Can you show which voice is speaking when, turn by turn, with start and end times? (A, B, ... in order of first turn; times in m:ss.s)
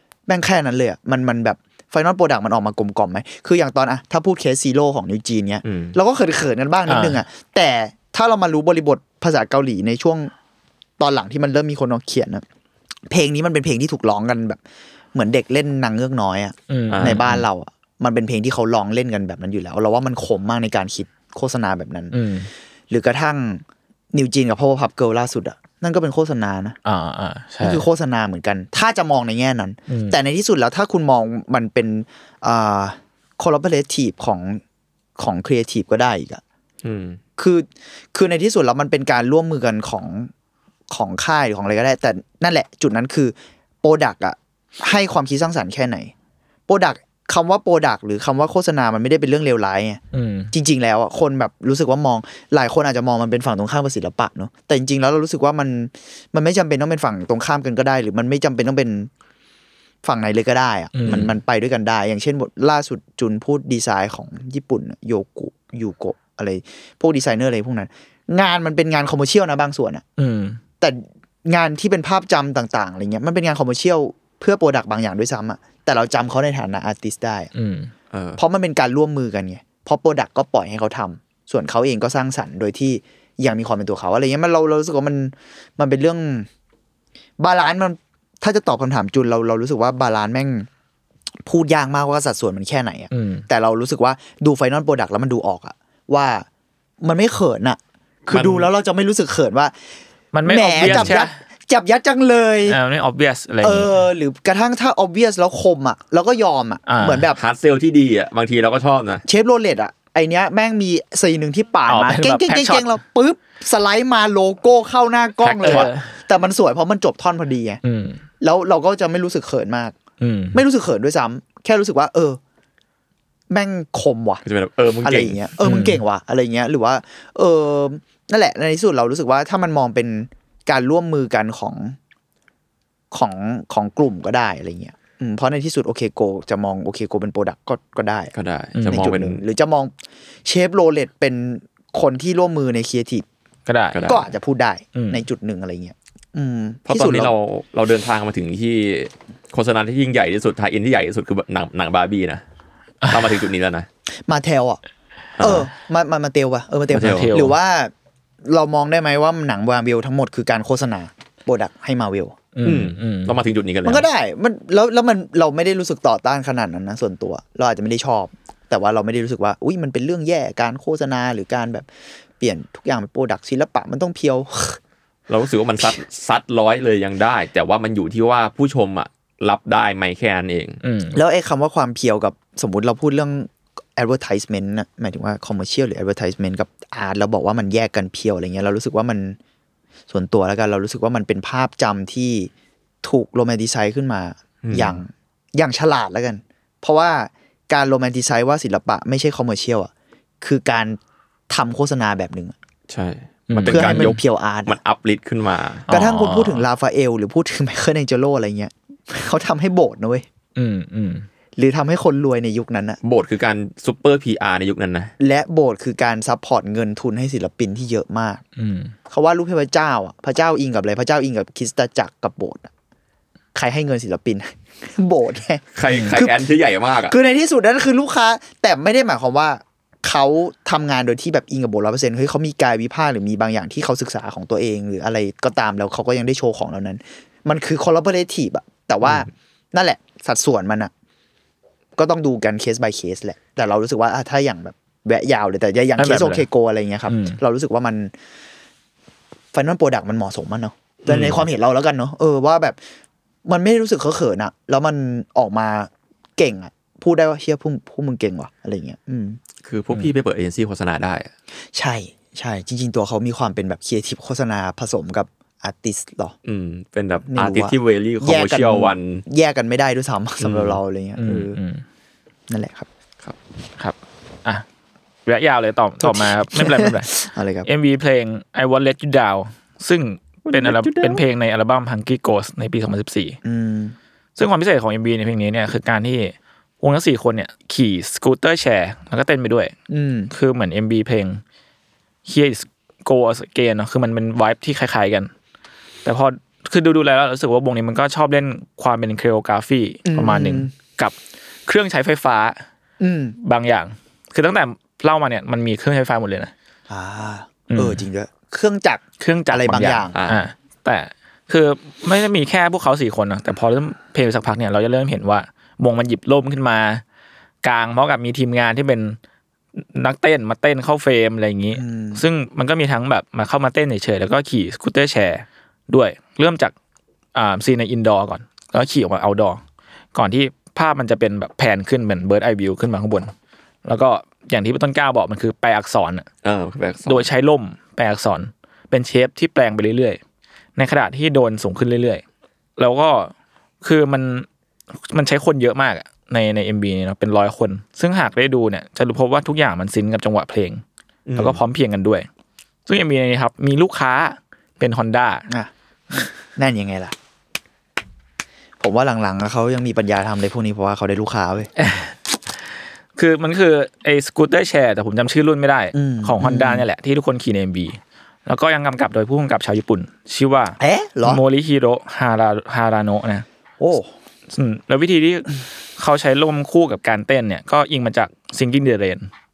0:00.3-0:10.3 A
0:05.6-0:06.0 B
0:06.9-0:07.2 C
0:11.0-0:12.4 A
0:13.1-0:14.6 A
0:15.1-0:22.1 A
0:16.7-0:17.4 C
0:16.9-0:17.2 B
0:22.1-0:22.5 C
0:22.9-0:26.8 A
0:26.8-0:27.9 C
0:27.6-0:34.6 A
0:29.9-0:30.2 C
0:35.2-0:36.4 A
0:36.8-0:37.2 B
0:37.4-0:40.3 A
0:40.9-0:46.1 A
0:46.7-0:50.0 A
0:50.1-0:50.5 C
0:50.5-0:59.1 A
1:00.0-1:10.0 A
1:00.9-1:01.3 C
1:10.2-1:10.6 C
1:10.8-1:17.5 A
1:17.6-1:17.9 C
1:18.1-1:18.4 B
1:18.4-1:26.5 A
1:27.4-1:30.7 A
1:31.4-1:36.5 A
1:33.1-1:33.4 C
1:37.0-1:39.7 A
1:40.3-1:41.3 C
1:40.4-1:42.8 A
1:42.7-1:44.0 C
1:43.6-1:47.4 A
1:46.9-1:47.3 C
1:47.4-1:49.2 B
1:49.3-1:57.8 A
1:51.9-1:52.9 C
1:55.4-1:56.1 C
1:55.6-1:55.9 B
1:57.8-1:58.2 C
1:58.4-2:00.0 A
2:00.2-2:00.6 C
2:00.5-2:02.4 A
2:03.5-2:04.4 A
2:04.4-2:05.5 B
2:05.0-2:12.0 A
2:05.6-2:06.0 C
2:13.1-2:18.3 A
2:18.3-2:19.4 B
2:18.7-2:19.0 C
2:18.9-2:19.9 A
2:20.4-2:23.3 A
2:23.7-2:24.0 C
2:23.9-2:24.3 B
2:24.0-2:27.3 A
2:25.0-2:25.2 C
2:26.9-2:32.4 B
2:33.0-2:33.3 C
2:33.1-2:33.9 B
2:34.3-2:34.8 A
2:35.4-2:35.7 B
2:35.4-2:37.9 A
2:36.9-2:37.4 B
2:36.9-2:37.5 C
2:38.4-2:42.4 A
2:42.6-2:43.3 C
2:42.6-2:44.1 B
2:43.8-2:54.8 A
2:55.3-3:00.8 B
3:00.8-3:01.2 C
3:01.1-3:09.4 A
3:10.1-3:12.5 A
3:13.0-3:21.0 A
3:14.6-3:15.0 B
3:21.5-3:22.6 A
3:22.9-3:25.9 B
3:23.5-3:24.2 C
3:23.6-3:24.8 A
3:25.9-3:26.6 C
3:25.9-3:30.3 A
3:30.6-3:31.3 C
3:31.6-3:33.0 A
3:33.0-3:35.1 B
3:35.2-3:38.4 A
3:38.6-3:39.0 C
3:39.1-3:42.7 A
3:43.6-3:45.6 A
3:45.7-3:47.1 B
3:45.9-3:46.2 C
3:46.1-3:46.4 A
3:47.1-4:00.9 A
4:02.0-4:08.1 A
4:06.0-4:06.4 C
4:07.1-4:07.4 C
4:09.5-4:12.8 A
4:11.1-4:11.4 C
4:13.4-4:19.4 A
4:19.6-4:21.3 B
4:21.7-4:26.3 A
4:26.4-4:29.2 B
4:27.3-4:31.6 A
4:30.4-4:30.8 B
4:31.2-4:31.8 C
4:32.5-4:32.9 A
4:33.8-4:34.6 C
4:35.3-4:37.1 C
4:36.0-4:37.7 A
4:37.6-4:43.4 C
4:40.5-4:41.2 A
4:43.4-4:44.0 A
4:44.4-4:49.7 C
4:49.9-4:50.3 A
4:50.3-4:51.4 C
4:52.3-4:55.3 C
4:56.0-5:01.1 C
5:00.0-5:00.7 A
5:01.6-5:02.6 C
5:03.0-5:03.4 A
5:03.4-5:06.5 C
5:06.9-5:10.2 A
5:07.7-5:08.0 C
5:09.2-5:17.0 C
5:10.1-5:10.4 B
5:17.6-5:19.2 C
5:19.8-5:26.7 C
5:21.7-5:22.2 A
5:27.3-5:29.6 C
5:30.1-5:33.3 C
5:33.8-5:36.3 C
5:36.4-5:37.3 B
5:37.0-5:40.2 C
5:40.8-5:42.2 C
5:42.8-5:44.5 C
5:45.1-5:50.8 C
5:51.3-5:51.6 B
5:51.4-5:52.3 C
5:52.9-5:55.5 C
5:55.5-5:57.1 A
5:58.8-6:01.7 A
6:01.8-6:02.2 C
6:03.2-6:13.4 C
6:05.9-6:06.8 A
6:10.8-6:11.4 A
6:13.8-6:14.1 A
6:14.5-6:19.3 C